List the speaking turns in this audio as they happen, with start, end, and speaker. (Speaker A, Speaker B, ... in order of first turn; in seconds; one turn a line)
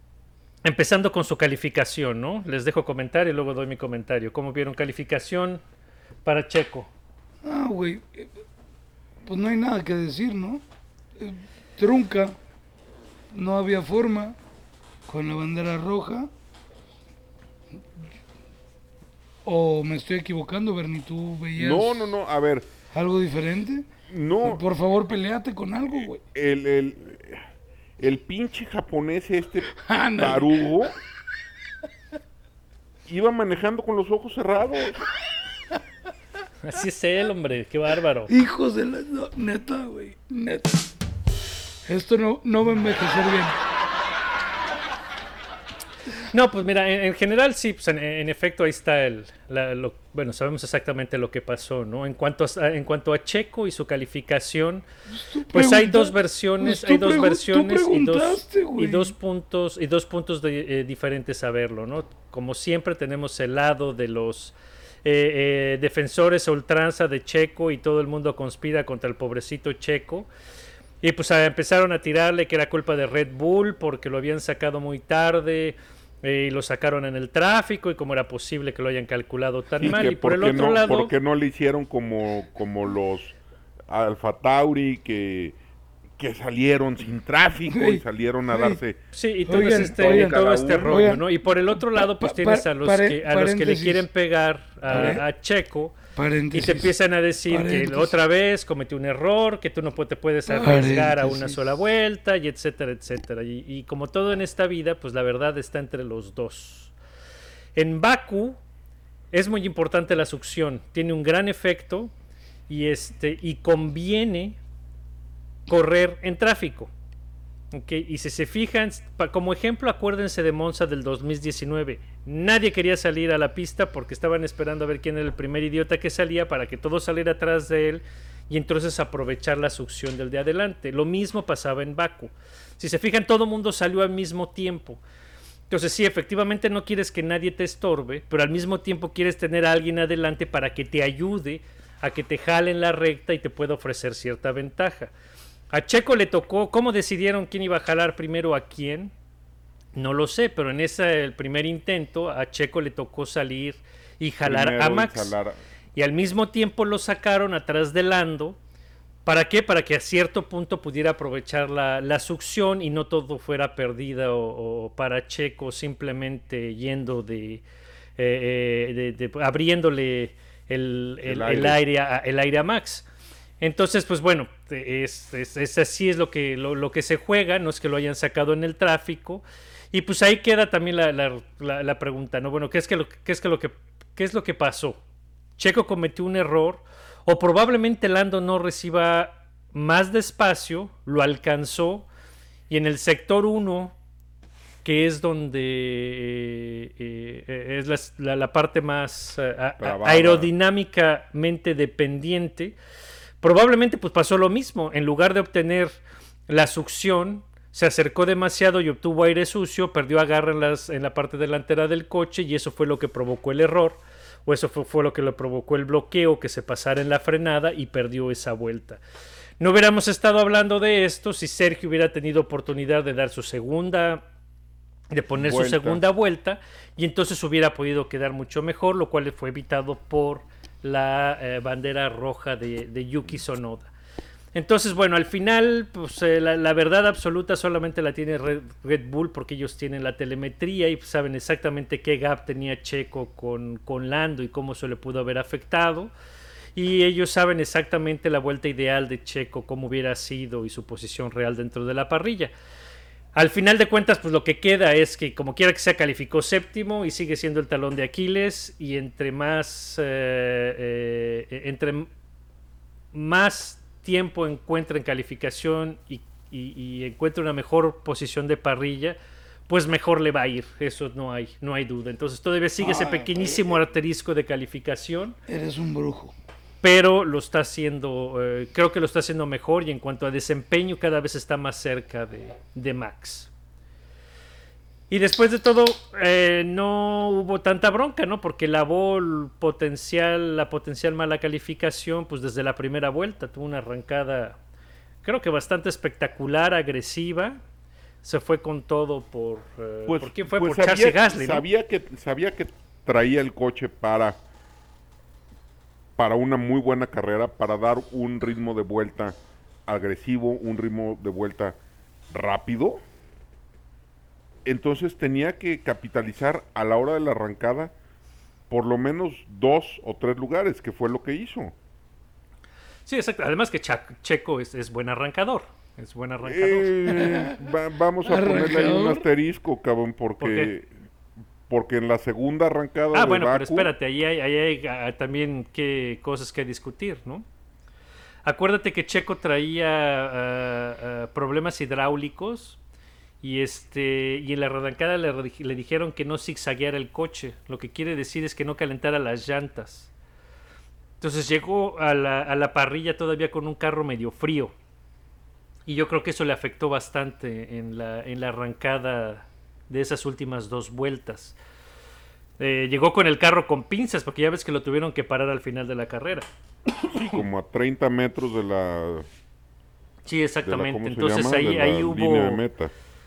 Speaker A: 0.6-5.6
Speaker A: 6.2-6.9
Speaker B: 7.4-8.3
Speaker B: 9.2-10.6
Speaker B: 11.2-12.4
Speaker B: 13.3-14.4
Speaker B: 15.1-16.3
Speaker B: 19.4-22.1
Speaker C: 21.6-22.7
Speaker B: 22.9-23.9
Speaker C: 24.1-24.6
Speaker B: 24.4-26.2
Speaker C: 26.3-27.4
Speaker C: 28.0-30.9
Speaker B: 29.7-30.7
Speaker C: 33.1-35.0
Speaker A: 36.6-38.3
Speaker B: 38.3-40.9
Speaker B: 41.9-43.6
Speaker A: 46.3-54.9
Speaker B: 55.1-59.1
Speaker A: 55.5-70.3
Speaker A: 71.0-81.1
Speaker C: 79.8-83.3
Speaker C: 83.9-85.6
Speaker C: 86.2-91.2
Speaker B: 87.7-88.8
Speaker A: 89.1-95.9
Speaker B: 89.5-94.1
Speaker B: 94.9-95.2
Speaker B: 96.1-96.9
Speaker A: 96.5-106.9
Speaker B: 97.5-98.2
Speaker B: 100.5-101.7
Speaker A: 107.7-108.6
Speaker A: 109.3-112.1
Speaker A: 112.7-114.6
Speaker A: 115.7-116.9
Speaker A: 117.7-135.0
Speaker A: 135.7-145.1
Speaker A: 145.7-149.1
Speaker A: 149.9-155.3
Speaker C: 154.4-155.6
Speaker A: 155.9-158.6
Speaker A: 159.2-167.6
Speaker A: 168.2-173.1
Speaker C: 171.2-171.8
Speaker A: 173.6-185.0
Speaker A: 185.6-192.1
Speaker A: 192.7-193.9
Speaker A: 194.8-202.8
Speaker C: 199.8-200.5
Speaker A: 203.4-205.9
Speaker A: 206.5-219.0
Speaker A: 219.6-224.2
Speaker A: 225.1-233.9
Speaker C: 225.3-226.0
Speaker A: 234.5-246.1
Speaker A: 246.7-252.5
Speaker A: 253.3-262.1
Speaker A: 263.1-275.4
Speaker B: 272.8-273.8
Speaker B: 275.5-276.3
Speaker A: 276.8-283.5
Speaker A: 285.1-294.6
Speaker A: 295.2-297.6
Speaker A: 298.2-301.6
Speaker C: 300.1-304.4
Speaker C: 306.2-309.4
Speaker C: 309.9-311.8
Speaker C: 312.3-313.0
Speaker C: 314.6-317.9
Speaker C: 318.7-321.7
Speaker A: 323.1-326.9
Speaker C: 326.4-330.9
Speaker B: 327.1-327.5
Speaker B: 328.2-329.2
Speaker A: 330.4-330.7
Speaker C: 331.7-333.9
Speaker A: 333.1-337.4
Speaker A: 338.4-342.8
Speaker A: 343.4-350.1
Speaker A: 351.2-354.7
Speaker A: 355.9-361.6
Speaker A: 362.6-366.5
Speaker C: 367.1-369.2
Speaker A: 370.2-372.6
Speaker C: 370.6-372.9